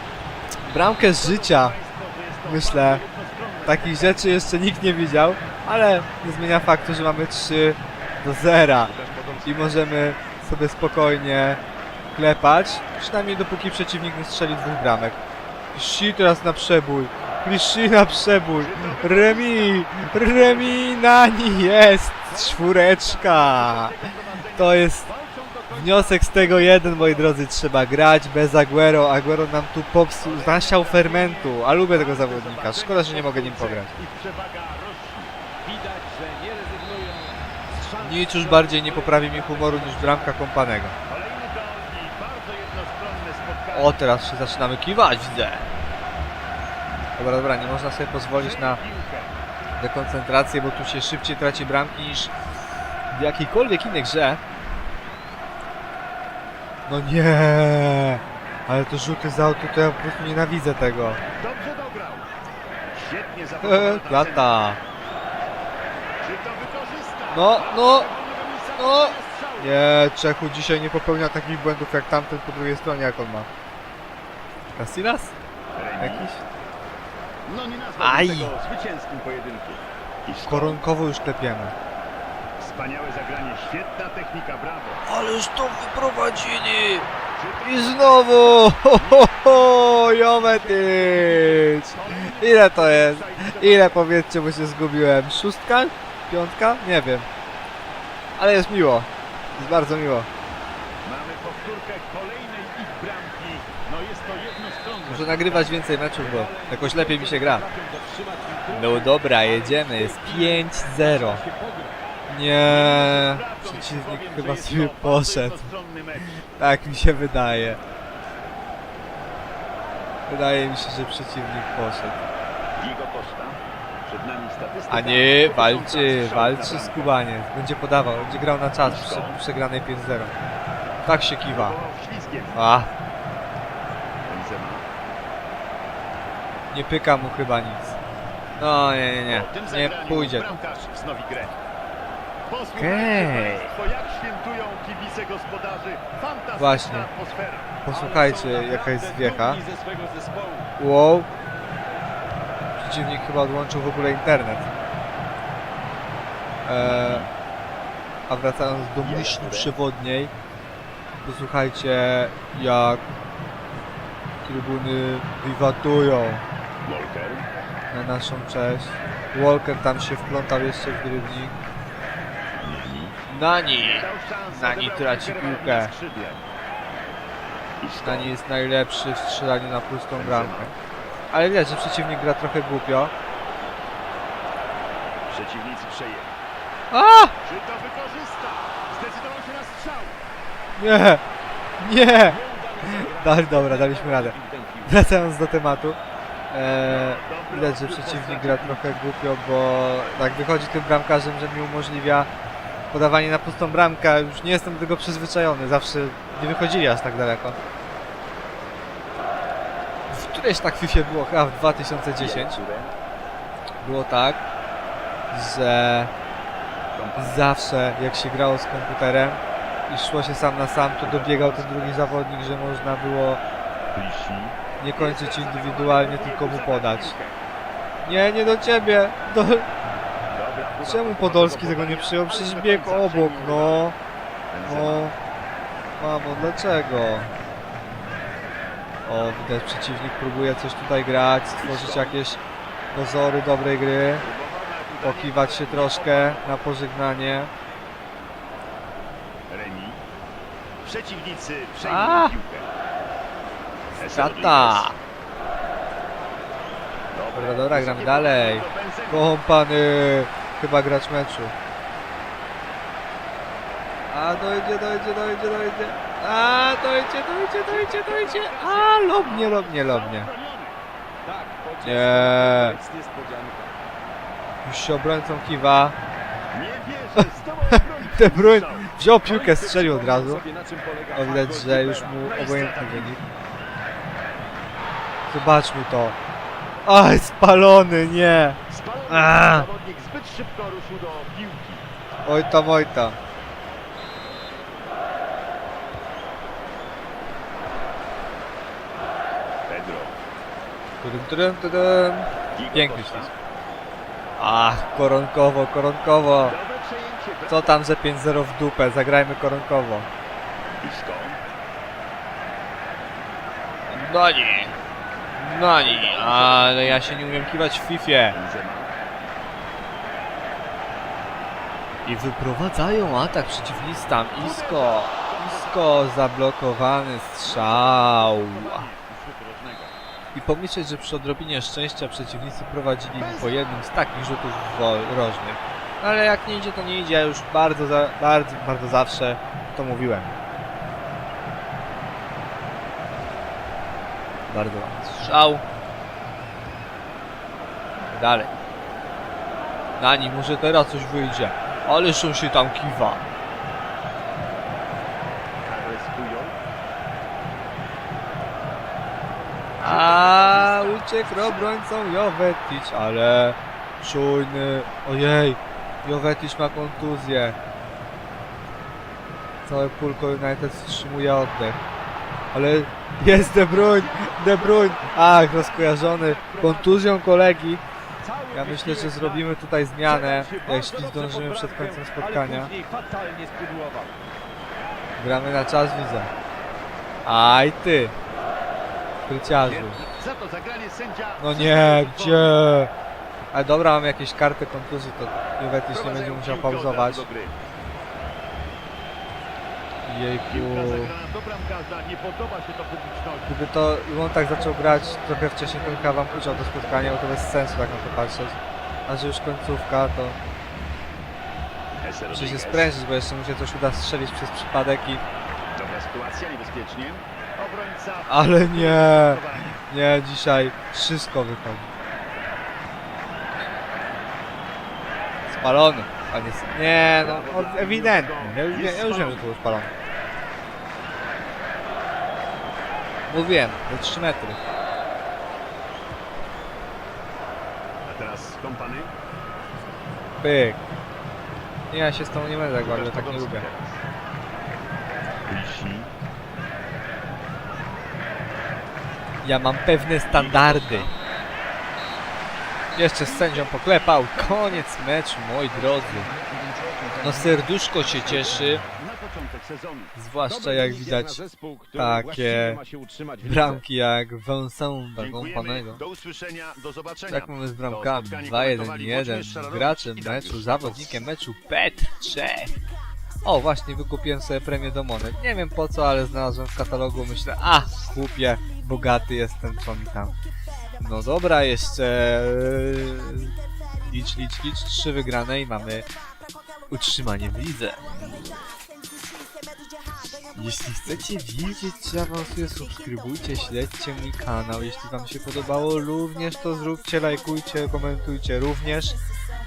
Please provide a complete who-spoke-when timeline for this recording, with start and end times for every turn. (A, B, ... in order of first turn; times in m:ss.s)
0:00.6-0:01.8 A
0:01.1-0:04.2 B
0:02.4-0:03.0 A
0:03.6-0:08.9 A
0:08.8-0:09.9 B
0:09.4-0:11.6 A
0:12.1-0:15.2 A
0:15.7-0:23.9 A
0:18.6-0:21.7 B
0:22.3-0:27.4 B
0:24.6-0:25.1 A
0:25.7-0:33.9 A
0:30.2-0:35.3 B
0:35.6-0:37.4 C
0:38.0-0:40.2 B
0:38.0-0:40.9 A
0:39.3-0:40.1 C
0:41.1-0:44.0 B
0:43.7-0:45.7 A
0:47.2-0:48.8 A
0:48.3-0:49.3 B
0:49.8-0:52.3 A
0:53.1-0:54.4 A
0:56.9-1:01.2 A
1:01.3-1:02.3 B
1:02.9-1:04.6 B
1:03.6-1:04.8 A
1:06.2-1:09.8 B
1:07.3-1:08.1 A
1:08.8-1:13.5 A
1:14.8-1:15.3 A
1:15.7-1:16.3 B
1:16.0-1:16.4 A
1:17.4-1:20.8 B
1:18.0-1:18.5 A
1:20.5-1:21.7 A
1:22.6-1:25.0 B
1:25.0-1:27.1 A
1:27.3-1:28.3 B
1:27.6-1:37.3 A
1:30.3-1:34.0 B
1:38.4-1:40.3 A
1:41.0-1:45.9 B
1:45.1-1:47.6 A
1:46.2-1:50.6 C
1:48.7-1:51.4 A
1:51.1-1:51.4 B
1:51.4-1:51.9 C
1:52.3-1:55.7 A
1:52.6-1:56.3 B
1:56.3-1:57.8 A
2:00.3-2:02.2 A
2:02.8-2:07.2 B
2:04.9-2:10.3 A
2:08.8-2:09.4 B
2:11.0-2:11.8 A
2:11.4-2:12.6 B
2:12.5-2:12.9 A
2:14.2-2:14.8 B
2:16.7-2:18.0 A
2:18.6-2:20.5 A
2:19.3-2:21.5 B
2:22.5-2:30.6 B
2:22.7-2:23.7 A
2:26.6-2:27.1 A
2:27.8-2:29.6 A
2:29.7-2:30.5 C
2:30.8-2:31.3 A
2:32.8-2:34.7 A
2:36.6-2:37.2 A
2:36.8-2:37.3 B
2:38.3-2:40.3 A
2:39.0-2:39.7 B
2:41.2-2:43.0 A
2:44.4-2:46.4 A
2:46.8-2:47.5 B
2:47.9-2:51.6 A
2:52.6-2:53.2 B
2:53.3-2:55.9 A
2:53.8-2:56.4 B
2:57.8-2:58.3 B
2:58.0-3:00.7 A
3:00.2-3:00.7 B
3:01.3-3:03.1 A
3:05.2-3:06.3 B
3:06.9-3:07.3 A
3:07.4-3:10.2 B
3:10.8-3:11.2 A
3:11.8-3:14.3 A
3:12.2-3:15.0 B
3:14.8-3:16.0 A
3:16.5-3:22.3 A
3:16.8-3:19.0 B
3:22.9-3:27.6 A
3:30.1-3:32.6 A
3:32.2-3:32.9 B
3:33.8-3:34.4 A
3:35.3-3:36.1 A
3:37.0-3:37.5 B
3:37.2-3:43.4 A
3:41.0-3:42.2 B
3:43.9-3:47.4 B
3:44.8-3:47.2 A
3:48.0-3:49.7 A
3:50.3-3:53.8 B
3:50.8-3:54.0 A
3:54.5-3:55.1 B
3:54.6-3:55.2 A
3:56.0-3:57.3 A
3:59.0-4:02.4 A
4:01.6-4:02.2 B
4:02.9-4:04.2 A
4:04.2-4:06.4 B
4:05.0-4:07.5 A
4:09.5-4:10.0 B
4:10.8-4:12.7 B
4:11.8-4:12.4 A
4:14.0-4:14.9 B
4:14.0-4:15.0 A
4:17.1-4:19.3 B
4:17.3-4:21.5 A
4:24.1-4:30.3 A
4:27.7-4:30.8 B
4:31.2-4:33.7 C
4:31.8-4:32.8 A
4:34.6-4:35.9 A
4:36.5-4:38.9 B
4:37.7-4:40.4 A
4:39.3-4:41.2 C
4:41.1-4:43.2 B
4:41.1-4:43.2 A
4:45.3-4:46.2 A
4:46.8-4:49.7 A
4:48.7-4:51.8 B
4:52.2-4:53.2 A
4:59.7-5:00.2 B
5:01.0-5:03.3 A
5:02.5-5:03.3 B
5:04.4-5:06.5 A
5:06.4-5:07.8 B
5:07.5-5:10.1 A
5:10.8-5:11.4 B
5:13.9-5:14.7 A
5:15.4-5:18.4 A
5:15.8-5:17.3 B
5:18.3-5:18.9 B
5:22.0-5:28.9 A
5:24.4-5:25.8 B
5:27.4-5:29.9 B
5:30.3-5:40.3 A
5:33.2-5:33.7 B
5:44.5-5:45.6 A
5:48.1-5:48.5 A
5:50.0-5:53.2 A
5:55.6-5:56.6 B
5:59.8-6:01.7 B
5:59.8-6:07.6 A
6:09.6-6:11.8 A
6:12.5-6:17.8 A
6:13.3-6:17.1 B
6:18.3-6:19.5 B
6:18.5-6:22.7 A
6:20.0-6:22.1 B
6:22.1-6:24.2 C
6:25.2-6:26.3 A
6:27.2-6:28.1 A
6:29.3-6:30.0 A
6:29.6-6:32.6 B
6:31.4-6:32.9 A
6:33.5-6:37.3 A
6:35.9-6:37.5 B
6:40.0-6:41.1 A
6:40.5-6:43.5 B
6:43.5-6:50.4 A
6:52.0-6:52.9 B
6:52.3-6:55.2 A
6:55.7-6:59.7 B
6:58.3-7:01.9 A
7:05.5-7:09.9 A
7:07.0-7:09.5 B
7:13.3-7:14.6 A
7:18.0-7:19.1 B
7:20.4-7:20.8 A
7:21.9-7:23.6 A
7:22.8-7:24.0 B
7:25.5-7:26.1 B
7:29.4-7:31.1 A
7:30.2-7:31.1 B
7:32.9-7:36.3 A
7:33.2-7:34.9 B
7:37.2-7:38.8 A
7:38.2-7:40.1 B
7:40.1-7:41.4 A
7:40.5-7:43.5 C
7:42.0-7:42.8 A
7:43.4-7:46.0 A
7:45.2-7:51.2 B
7:47.3-7:52.8 A
7:53.4-8:00.3 A
8:01.0-8:06.0 A
8:06.9-8:08.0 A
8:10.5-8:19.2 A